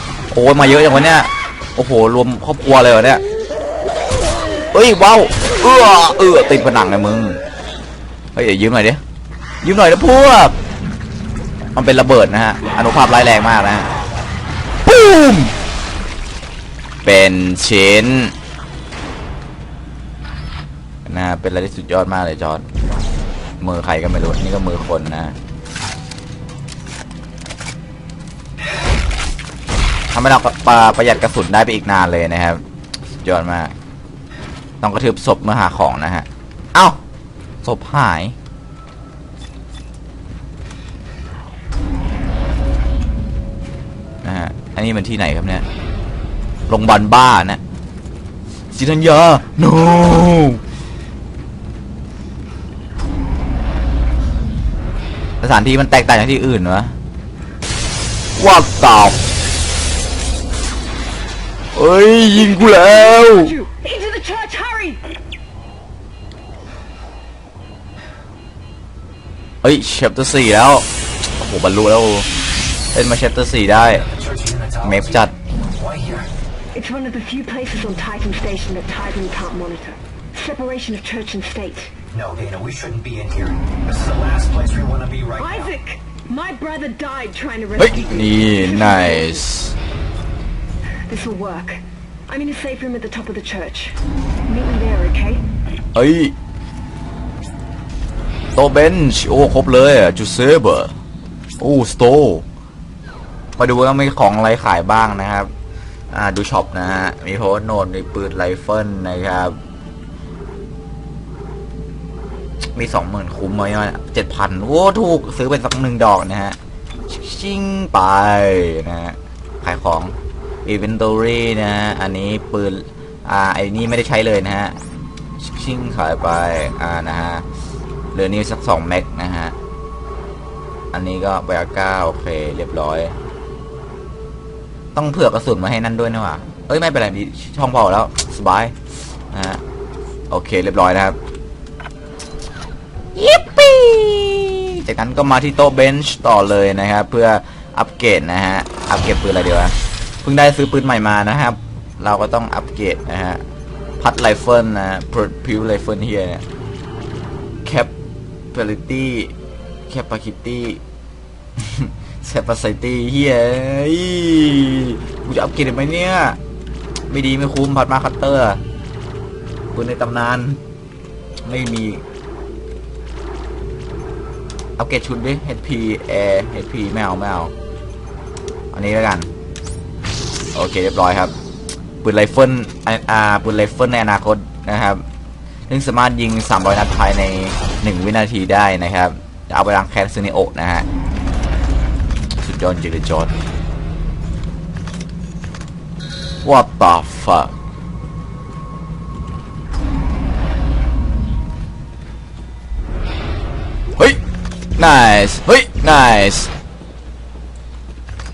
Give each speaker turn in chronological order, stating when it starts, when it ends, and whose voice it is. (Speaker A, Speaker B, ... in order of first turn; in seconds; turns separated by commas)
Speaker A: 0.3-3.2, Speaker A: 4.7-7.4, Speaker A: 8.3-9.0, Speaker A: 9.6-10.6, Speaker A: 11.8-13.9, Speaker A: 14.8-15.5, Speaker A: 17.0-18.3, Speaker A: 21.1-22.6, Speaker A: 23.6-25.4, Speaker A: 30.1-32.6, Speaker A: 33.2-33.7, Speaker A: 34.8-37.0, Speaker A: 37.6-38.3, Speaker A: 44.2-45.6, Speaker A: 46.7-47.6, Speaker A: 48.7-50.6, Speaker A: 55.4-57.0, Speaker A: 58.4-59.2, Speaker A: 61.7-63.5, Speaker B: 62.5-65.0, Speaker A: 69.6-72.3, Speaker A: 72.9-74.1, Speaker C: 74.2-74.8, Speaker A: 74.8-75.3, Speaker B: 76.7-83.5, Speaker C: 82.3-83.3, Speaker C: 84.1-85.2, Speaker B: 84.9-89.4, Speaker A: 87.8-89.7, Speaker B: 91.1-95.4, Speaker A: 95.9-96.3, Speaker A: 98.5-100.9, Speaker A: 101.6-102.4, Speaker A: 103.6-105.5, Speaker A: 106.1-109.5, Speaker A: 112.7-116.6, Speaker A: 117.1-124.8, Speaker A: 125.4-127.4, Speaker A: 128.1-129.5, Speaker A: 130.9-133.1, Speaker A: 134.9-138.7, Speaker A: 139.3-139.6, Speaker A: 140.3-141.2, Speaker A: 143.1-153.4, Speaker A: 154.0-156.4, Speaker A: 157.6-157.9, Speaker A: 158.5-159.3, Speaker A: 159.9-160.8, Speaker A: 161.6-166.4, Speaker A: 167.1-168.6, Speaker A: 169.7-170.6, Speaker A: 171.4-172.0, Speaker A: 174.8-177.5, Speaker A: 178.7-179.3, Speaker A: 180.5-181.3, Speaker A: 182.0-185.0, Speaker A: 185.7-190.9, Speaker A: 192.4-193.3, Speaker A: 196.4-197.5, Speaker A: 204.8-206.5